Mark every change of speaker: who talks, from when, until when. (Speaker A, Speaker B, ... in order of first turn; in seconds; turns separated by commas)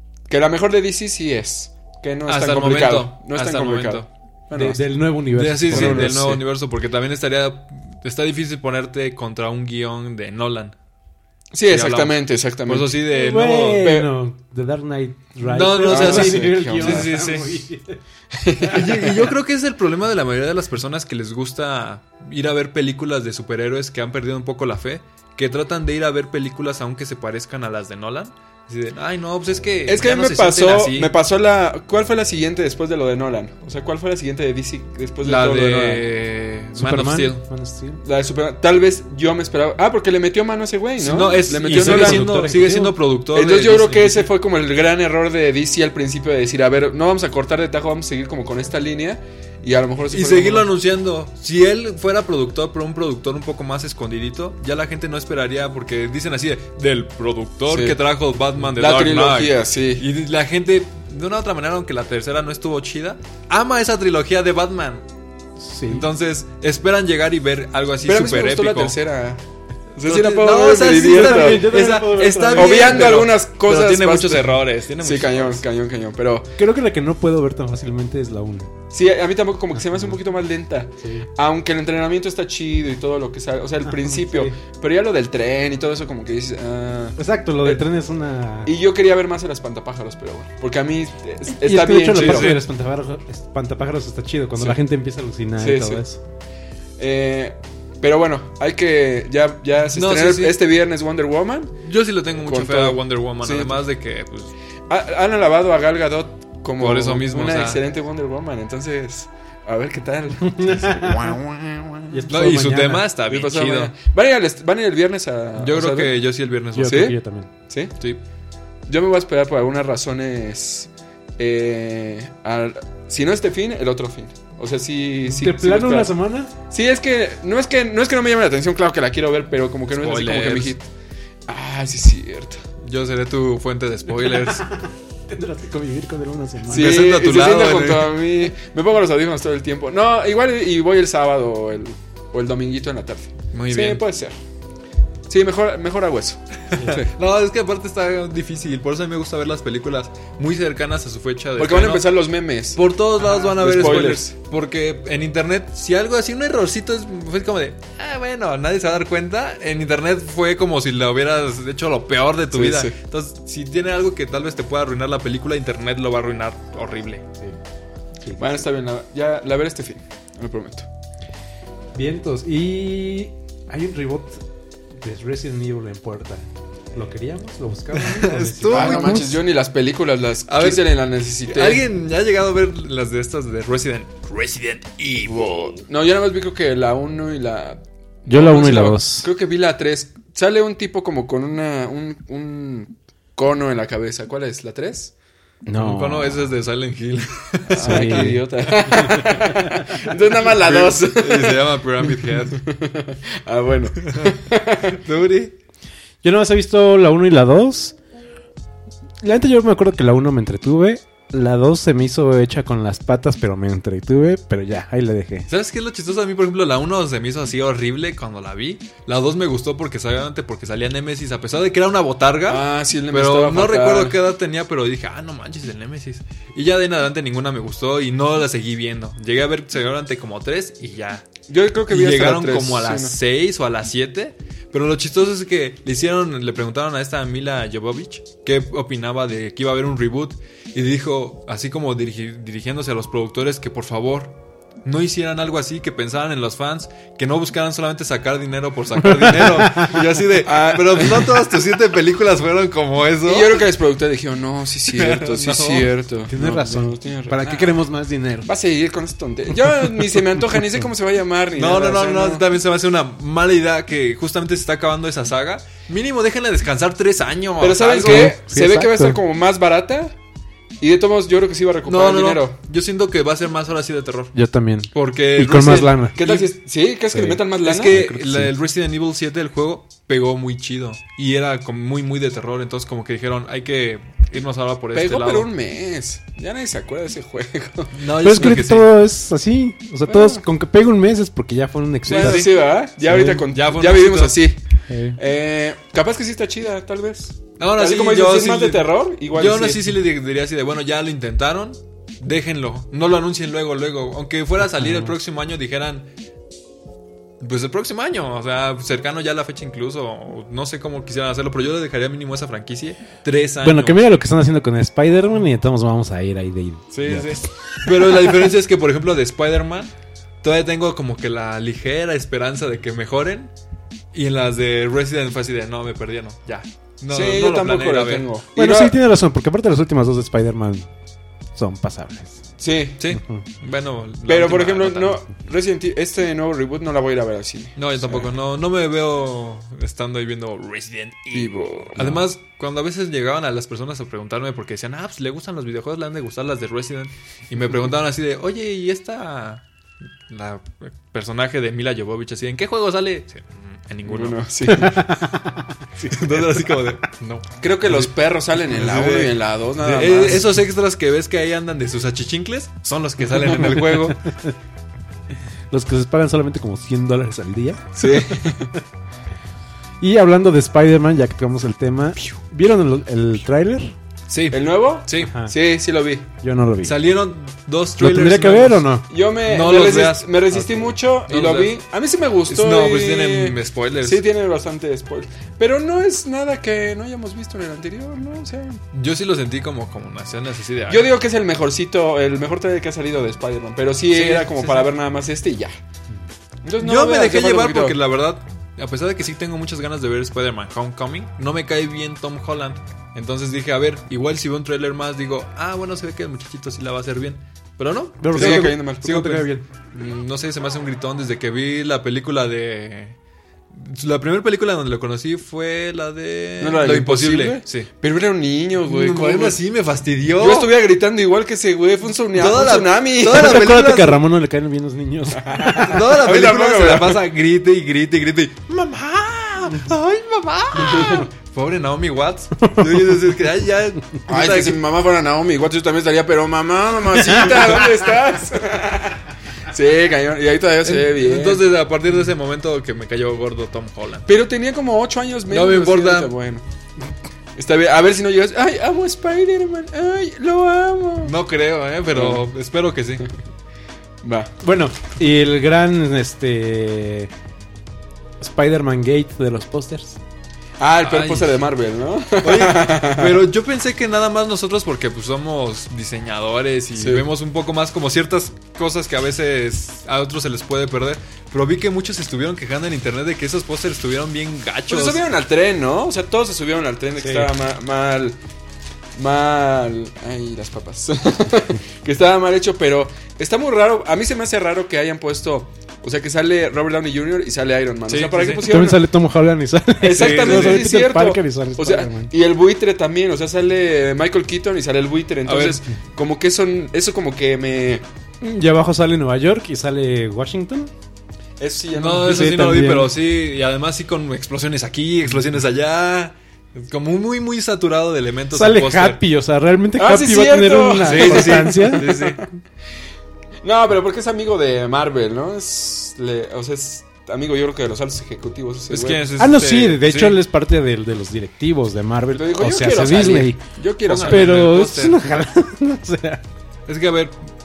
Speaker A: 0.3-4.8, Speaker B: 2.3-4.1, Speaker C: 4.5-6.4, Speaker B: 5.3-10.8, Speaker A: 5.7-6.3, Speaker A: 11.5-13.0, Speaker B: 11.7-14.0, Speaker C: 13.1-18.7, Speaker A: 13.8-14.1, Speaker B: 15.4-17.6, Speaker A: 15.9-17.1, Speaker A: 18.3-19.3, Speaker B: 18.7-31.1, Speaker A: 29.9-36.1, Speaker B: 35.2-37.4, Speaker C: 36.8-38.0, Speaker A: 38.0-42.3, Speaker B: 41.0-44.3, Speaker C: 41.7-43.0, Speaker A: 43.3-50.7, Speaker B: 50.1-65.0, Speaker A: 57.7-58.0, Speaker A: 58.8-60.0, Speaker C: 65.6-66.1, Speaker B: 65.9-69.0, Speaker A: 68.0-69.4, Speaker A: 70.0-71.9, Speaker B: 70.0-75.6, Speaker C: 70.9-73.3, Speaker A: 72.5-76.5, Speaker C: 76.6-78.7, Speaker A: 78.9-87.8, Speaker C: 81.0-81.3, Speaker C: 84.0-84.6, Speaker C: 87.2-88.7, Speaker A: 88.7-92.6, Speaker C: 91.5-96.2, Speaker B: 92.1-92.6, Speaker A: 95.6-96.0, Speaker A: 97.0-101.8, Speaker B: 99.9-100.6, Speaker B: 101.8-104.5, Speaker A: 102.4-103.8, Speaker A: 104.9-112.3, Speaker B: 106.8-107.8, Speaker C: 110.4-111.3, Speaker C: 112.1-113.1, Speaker B: 112.3-114.0, Speaker A: 113.3-116.2, Speaker B: 115.6-117.2, Speaker C: 116.7-117.5, Speaker A: 116.8-117.2, Speaker A: 117.7-118.0, Speaker A: 118.9-126.1, Speaker C: 125.3-126.5, Speaker A: 126.7-130.9, Speaker B: 130.0-130.8, Speaker A: 131.5-132.6, Speaker B: 132.8-134.7, Speaker C: 134.2-137.0, Speaker A: 136.7-144.4, Speaker B: 136.7-138.2, Speaker B: 143.5-144.0, Speaker A: 145.3-147.1, Speaker B: 146.7-152.1, Speaker A: 151.6-154.3, Speaker B: 152.7-167.2, Speaker A: 162.5-162.9, Speaker A: 168.4-170.9, Speaker C: 171.9-174.4, Speaker C: 175.0-179.4, Speaker B: 177.9-179.3, Speaker A: 178.7-181.8, Speaker B: 180.5-185.7, Speaker A: 185.2-195.1, Speaker C: 188.3-189.3, Speaker C: 195.7-196.5, Speaker B: 195.8-198.4, Speaker A: 197.7-205.0, Speaker C: 197.8-198.4, Speaker B: 199.0-199.4, Speaker C: 199.1-199.5, Speaker B: 200.5-202.6, Speaker B: 204.1-204.3, Speaker B: 204.9-205.6, Speaker C: 206.2-208.0, Speaker C: 209.2-215.5, Speaker B: 215.5-231.3, Speaker A: 222.5-224.2, Speaker A: 231.5-233.2, Speaker B: 231.9-253.6, Speaker C: 249.0-249.9, Speaker A: 249.9-251.4, Speaker A: 253.2-257.5, Speaker B: 254.9-255.9, Speaker C: 256.3-258.5, Speaker A: 258.4-262.4, Speaker B: 261.6-268.4, Speaker A: 267.6-270.1, Speaker C: 268.1-269.2, Speaker A: 270.8-272.6, Speaker B: 271.9-274.4, Speaker C: 274.3-276.2, Speaker B: 274.9-276.5, Speaker A: 276.1-278.0, Speaker C: 277.1-278.5, Speaker B: 277.6-285.5, Speaker A: 284.9-288.6, Speaker B: 287.9-288.9, Speaker C: 288.2-292.5, Speaker A: 290.1-290.4, Speaker A: 292.1-294.6, Speaker B: 292.1-292.5, Speaker C: 293.0-293.4, Speaker B: 293.4-294.4, Speaker C: 294.9-295.2, Speaker A: 295.1-300.0, Speaker B: 297.6-306.1, Speaker C: 304.8-305.1, Speaker B: 307.4-314.0, Speaker C: 313.6-317.4, Speaker B: 316.9-319.9, Speaker B: 320.4-323.5, Speaker B: 324.1-328.3, Speaker A: 327.1-329.0, Speaker C: 328.6-330.9, Speaker C: 331.6-332.4, Speaker A: 332.6-333.0, Speaker B: 333.0-335.2, Speaker C: 333.1-333.4, Speaker A: 334.3-338.3, Speaker B: 337.8-349.6, Speaker A: 341.3-342.2, Speaker B: 350.3-354.4, Speaker A: 354.1-355.1, Speaker C: 354.7-355.8, Speaker B: 356.0-358.1, Speaker A: 357.6-360.5, Speaker B: 358.7-364.2, Speaker C: 364.3-364.5, Speaker C: 365.7-368.6, Speaker A: 368.0-368.7, Speaker C: 370.0-374.0, Speaker B: 374.3-375.3, Speaker A: 374.5-376.3, Speaker C: 375.2-375.5, Speaker C: 376.4-377.0, Speaker B: 376.8-378.9, Speaker C: 378.0-379.1, Speaker A: 379.1-388.8, Speaker B: 379.5-380.4, Speaker C: 380.5-380.9, Speaker B: 381.3-381.8, Speaker B: 382.5-384.2, Speaker B: 388.9-391.1, Speaker A: 390.9-395.7, Speaker B: 394.1-394.9, Speaker A: 396.6-398.0, Speaker B: 396.8-413.2, Speaker C: 408.2-409.6, Speaker A: 408.3-409.1, Speaker B: 413.7-417.9, Speaker A: 416.6-419.6, Speaker B: 418.8-420.7, Speaker A: 420.4-423.6, Speaker B: 422.4-424.2, Speaker C: 423.3-426.0, Speaker A: 425.4-427.2, Speaker B: 425.8-434.8, Speaker A: 430.8-431.3, Speaker A: 434.3-441.7, Speaker B: 440.8-444.3, Speaker A: 444.3-446.6, Speaker B: 445.5-446.3, Speaker A: 447.6-451.3, Speaker B: 451.2-453.3, Speaker A: 452.1-452.4, Speaker A: 454.2-454.5, Speaker C: 454.6-457.3, Speaker C: 458.4-460.2, Speaker A: 460.8-463.4, Speaker B: 461.0-461.6, Speaker B: 462.4-475.2, Speaker A: 467.0-467.3, Speaker A: 474.9-478.4, Speaker C: 477.2-477.5, Speaker A: 479.1-489.1, Speaker B: 488.1-488.9, Speaker C: 488.6-492.3, Speaker A: 490.0-498.0, Speaker B: 490.1-490.9, Speaker B: 495.5-495.8, Speaker C: 498.4-500.9, Speaker A: 501.6-502.5, Speaker B: 502.0-509.2, Speaker C: 502.2-503.1, Speaker C: 508.5-512.0, Speaker A: 510.0-512.4, Speaker B: 511.0-512.4, Speaker A: 513.6-519.3, Speaker B: 518.9-520.4, Speaker C: 519.4-523.6, Speaker A: 522.3-524.7, Speaker B: 524.0-525.3, Speaker C: 524.2-526.4, Speaker B: 526.9-527.4